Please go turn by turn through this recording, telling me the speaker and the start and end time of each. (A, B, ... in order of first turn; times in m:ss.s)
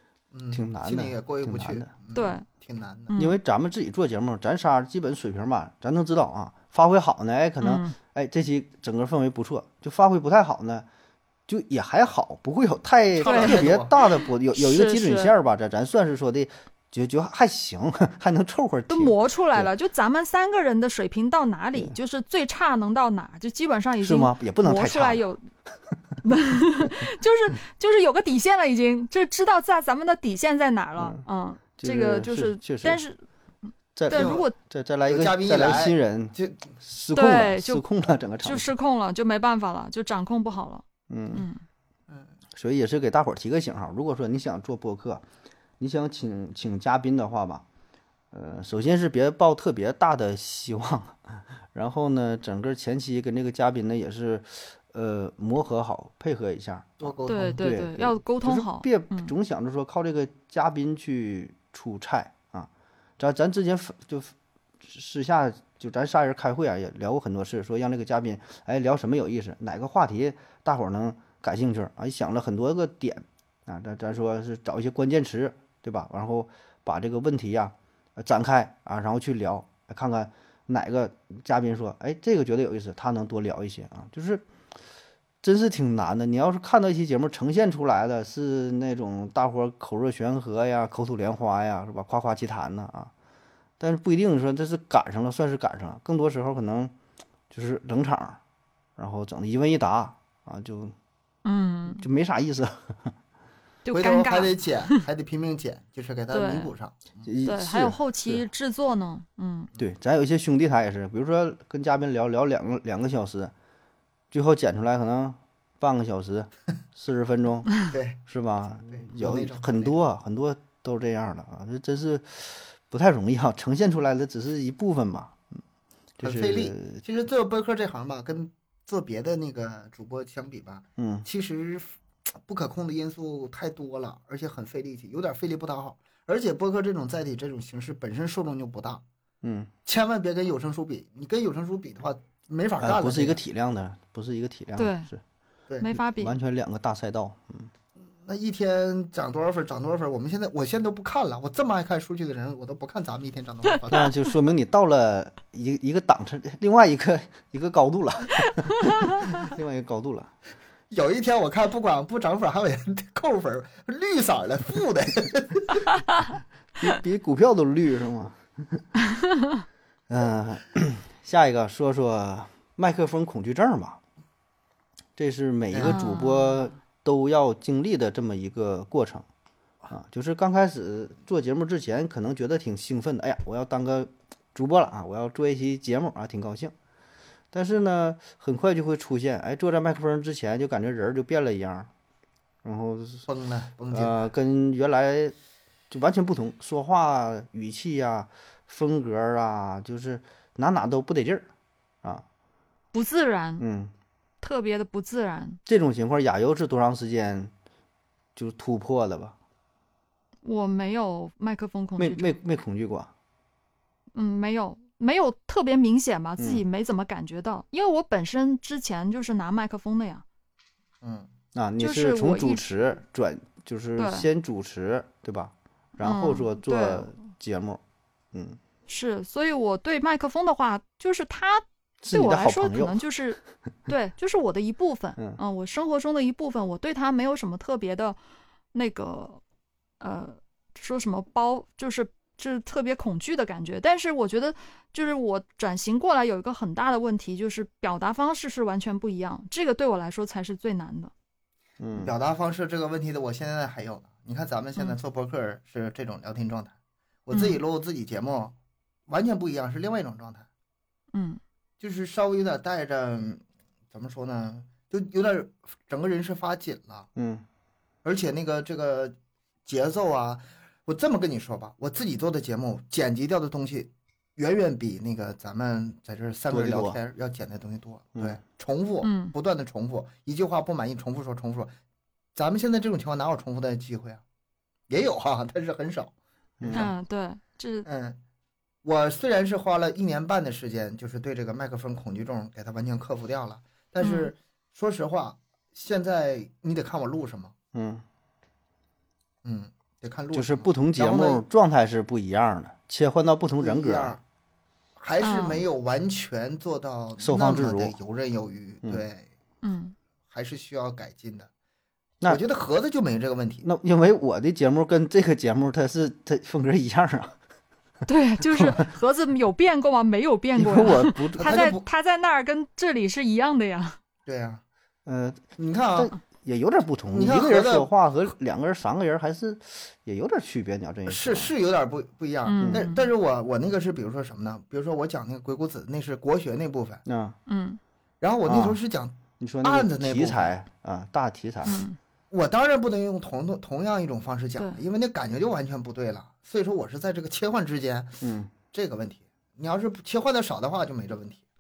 0:00.3-0:03.1 A
0:00.5-0:01.9 B
0:02.1-0:02.4 C
0:03.1-0:03.4 C
0:03.2-0:10.9 B
0:07.6-0:07.9 C
0:11.5-0:19.7 B
0:13.2-0:13.9 A
0:13.2-0:15.3 C
0:18.9-0:25.4 C
0:24.0-0:25.2 B
0:26.2-0:34.5 C
0:31.8-0:33.0 B
0:34.0-0:38.7 B
0:34.1-0:34.5 A
0:35.1-0:36.6 A
0:37.1-0:37.8 C
0:38.4-0:41.6 C
0:41.1-0:41.5 B
0:42.6-0:45.2 B
0:45.8-0:47.6 B
0:48.3-1:24.4 B
0:57.0-0:57.6 A
0:57.3-0:59.3 C
1:25.4-1:33.1 B
1:33.8-1:36.9 B
1:37.5-1:38.4 B
1:39.0-1:40.9 B
1:41.4-1:42.0 C
1:42.0-1:43.1 B
1:43.8-1:45.0 C
1:43.9-1:47.0 A
1:46.3-1:46.7 C
1:47.3-1:48.4 B
1:47.4-1:49.7 C
1:49.8-1:53.5 B
1:54.3-2:05.4 B
1:57.9-1:58.2 A
1:58.9-2:00.0 A
2:06.2-2:07.0 B
2:06.2-2:19.0 A
2:11.0-2:11.3 B
2:19.4-2:19.7 B
2:19.9-2:23.4 A
2:22.8-2:25.2 B
2:24.8-2:25.1 C
2:25.8-2:26.3 C
2:26.0-2:27.7 B
2:28.0-2:34.1 A
2:33.9-2:40.3 B
2:38.9-2:39.2 C
2:40.9-2:45.8 A
2:46.8-2:48.9 B
2:50.1-2:54.0 B
2:55.2-2:59.3 B
2:55.7-2:56.0 A
2:55.8-2:56.6 C
2:59.9-3:06.7 B
3:07.5-3:11.9 B
3:12.6-3:13.3 B
3:13.3-3:14.3 A
3:13.9-3:15.4 B
3:15.9-3:21.5 B
3:22.9-3:23.6 C
3:23.6-3:23.9 B
3:24.4-3:25.6 C
3:25.7-3:27.5 B
3:28.4-3:29.4 B
3:30.4-3:32.4 C
3:32.0-3:33.1 B
3:34.2-3:40.2 C
3:41.0-3:41.3 A
3:41.6-3:47.8 B
3:41.8-3:42.7 C
3:44.0-3:44.3 C
3:46.0-3:47.1 C
3:48.3-3:48.6 B
3:48.9-3:58.2 C
3:52.0-3:53.1 B
3:58.7-3:59.4 C
4:00.0-4:11.1 C
4:11.8-4:12.1 B
4:12.0-4:16.8 A
4:17.3-4:18.5 A
4:17.3-4:17.6 C
4:19.1-4:20.5 A
4:21.1-4:21.4 C
4:21.8-4:27.1 A
4:27.2-4:27.4 B
4:28.0-4:41.7 A
4:36.5-4:37.0 B
4:39.0-4:39.3 C
4:42.4-4:44.2 A
4:44.9-4:46.9 A
4:46.6-4:46.9 B
4:46.7-4:47.9 C
4:47.9-4:48.2 A
4:48.8-4:57.5 A
4:54.0-4:54.3 C
4:57.7-4:58.0 B
4:59.4-5:01.4 A
5:00.3-5:04.2 B
5:03.6-5:04.2 A
5:05.0-5:09.3 A
5:05.2-5:05.6 C
5:07.2-5:08.0 B
5:09.6-5:10.0 C
5:10.3-5:11.5 A
5:12.2-5:13.7 A
5:13.6-5:17.4 B
5:18.1-5:24.0 C
5:20.6-5:21.6 B
5:21.4-5:21.8 A
5:24.3-5:24.6 A
5:25.1-5:31.5 B
5:25.6-5:26.1 A
5:27.1-5:27.9 A
5:31.1-5:37.0 A
5:32.4-5:33.0 C
5:32.6-5:32.9 B
5:37.1-5:37.4 B
5:37.5-5:37.8 C
5:38.2-5:40.5 A
5:38.5-5:38.8 B
5:39.4-5:41.8 B
5:41.6-5:42.0 C
5:42.3-5:51.4 A
5:48.2-5:48.5 B